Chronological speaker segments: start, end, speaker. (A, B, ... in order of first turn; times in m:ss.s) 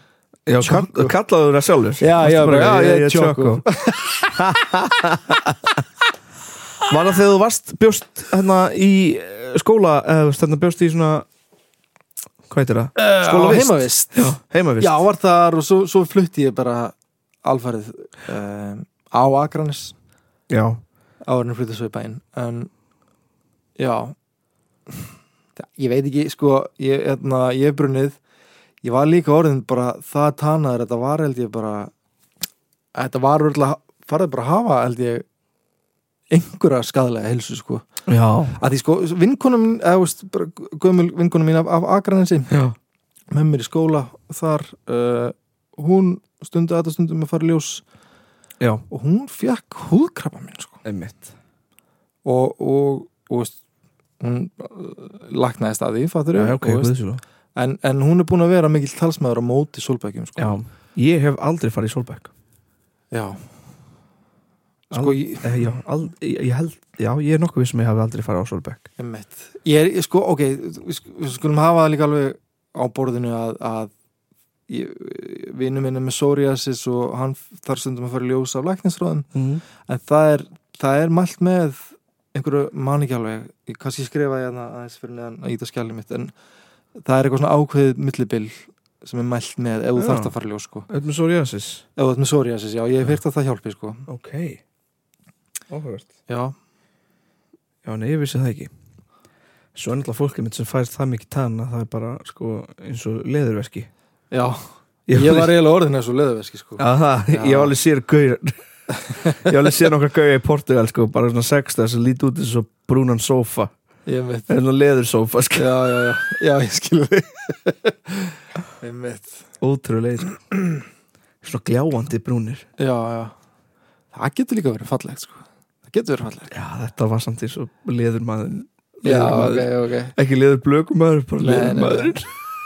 0:00.5-0:03.6 A
0:00.6-0:01.1 B
0:02.0-0:04.1 B
0:04.3-0:05.6 A
0:06.8-0:11.3 A
0:12.5-0:15.0 A
0:13.0-0:20.0 B
0:20.5-0:20.8 A
0:21.3-0:22.7 B
0:23.8-0:24.1 B
0:25.6-0:28.2 B
0:28.8-0:31.9 B
0:33.0-0:35.2 B
0:36.3-0:37.8 B
0:38.1-0:38.6 A
0:38.6-0:42.5 B
0:43.3-0:47.8 B
0:48.9-0:50.8 B
0:50.8-0:51.3 A
0:52.2-0:53.6 B
0:54.2-0:56.9 B
0:56.4-0:57.2 A
0:57.6-1:00.6 B
1:00.4-1:02.3 A
1:03.1-1:03.4 B
1:04.9-1:05.7 B
1:04.9-1:08.9 A
1:09.0-1:13.9 B
1:14.7-1:19.3 B
1:19.4-1:19.6 A
1:19.8-1:26.3 B
1:27.0-1:30.9 B
1:30.0-1:30.3 A
1:30.9-1:31.8 A
1:32.0-1:34.0 B
1:34.1-1:34.6 A
1:35.7-1:36.1 A
1:36.3-1:36.5 B
1:37.8-1:38.7 A
1:39.8-1:43.9 A
1:44.3-1:47.8 B
1:45.1-1:45.5 A
1:46.8-1:48.6 A
1:49.1-1:49.5 B
1:49.3-1:53.7 A
1:54.1-1:54.5 B
1:54.5-1:55.7 A
1:55.6-1:59.4 B
1:59.6-2:00.4 A
2:01.4-2:02.7 A
2:02.8-2:03.3 B
2:04.1-2:06.5 B
2:06.5-2:12.3 A
2:09.0-2:10.1 B
2:11.4-2:12.2 B